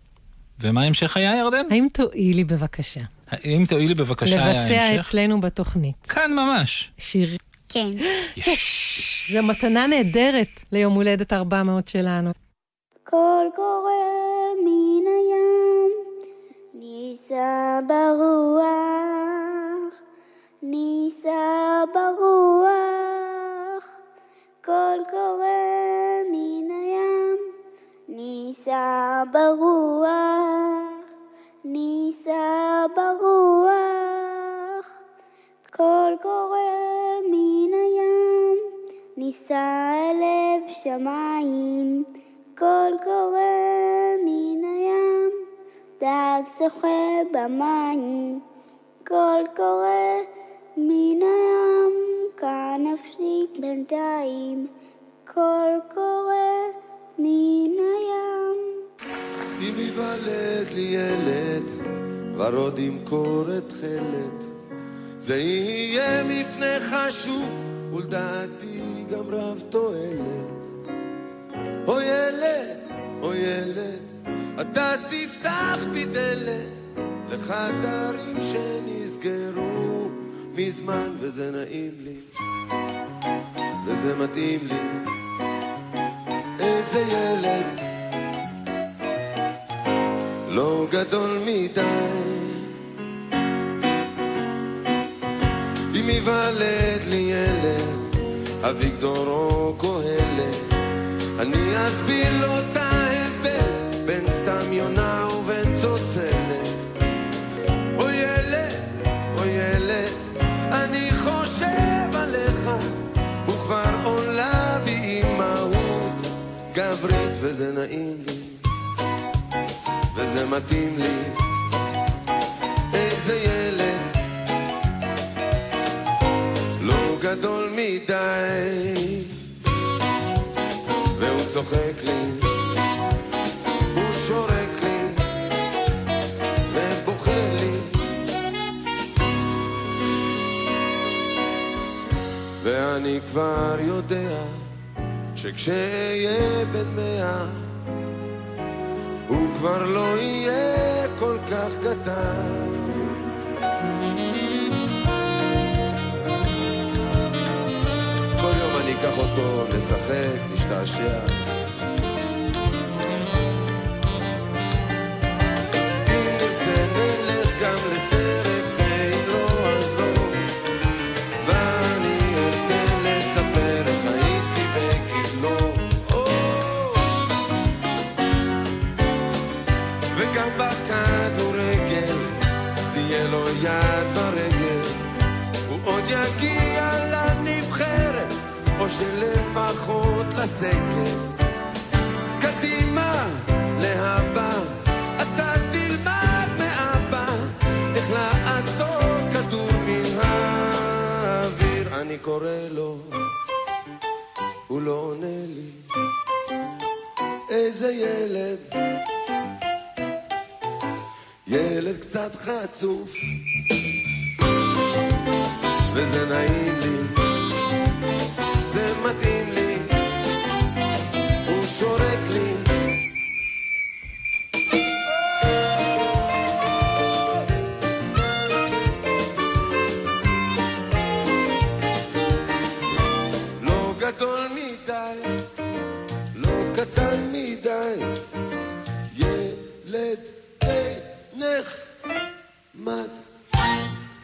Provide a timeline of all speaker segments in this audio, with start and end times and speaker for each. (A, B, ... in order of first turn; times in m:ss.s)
0:00.6-0:01.7 A
0:01.7-0:03.1 B
0:03.3-0:05.1 A
0:04.2-0:06.1 B
0:06.1-0:06.9 A
0:07.0-0:07.4 B
0:07.7-0:08.0 C
0:08.4-0:12.3 B
0:08.4-0:09.2 A
0:13.1-0:16.0 C
0:16.7-0:19.9 C
0:20.6-0:23.8 C
0:24.6-0:27.5 C
0:28.1-0:31.0 C
0:31.6-0:34.8 C
0:35.7-0:45.4 C
0:46.0-0:48.4 C
0:49.0-0:54.7 C
0:55.3-0:58.8 C
0:59.6-1:01.7 D
1:02.3-1:04.5 D
1:05.2-1:10.6 D
1:11.8-1:22.3 D
1:23.8-1:25.0 D
1:26.6-1:27.8 D
1:30.5-1:32.7 D
1:35.9-1:38.1 D
1:38.6-1:40.6 D
1:41.4-1:46.8 D
1:48.0-1:50.2 D
1:50.7-1:58.6 D
2:00.1-2:01.4 D
2:02.9-2:04.1 D
2:06.8-2:09.3 D
2:11.2-2:12.5 D
2:13.9-2:15.2 D
2:16.7-2:17.9 D
2:22.6-2:24.6 D
2:25.4-2:27.7 D
2:29.3-2:33.1 D
2:38.4-2:41.4 D
2:46.0-2:50.4 D
2:51.4-2:56.0 D
3:00.1-3:02.3 D
3:02.9-3:05.0 D
3:05.7-3:11.3 D
3:12.4-3:23.2 D
3:24.7-3:25.8 D
3:27.5-3:28.6 D
3:31.5-3:33.3 D
3:35.9-3:37.2 D
3:38.7-3:39.9 D
3:41.4-3:42.7 D
3:53.6-3:55.4 D
3:56.3-3:58.1 D
3:59.1-4:01.9 D
4:02.7-4:03.2 D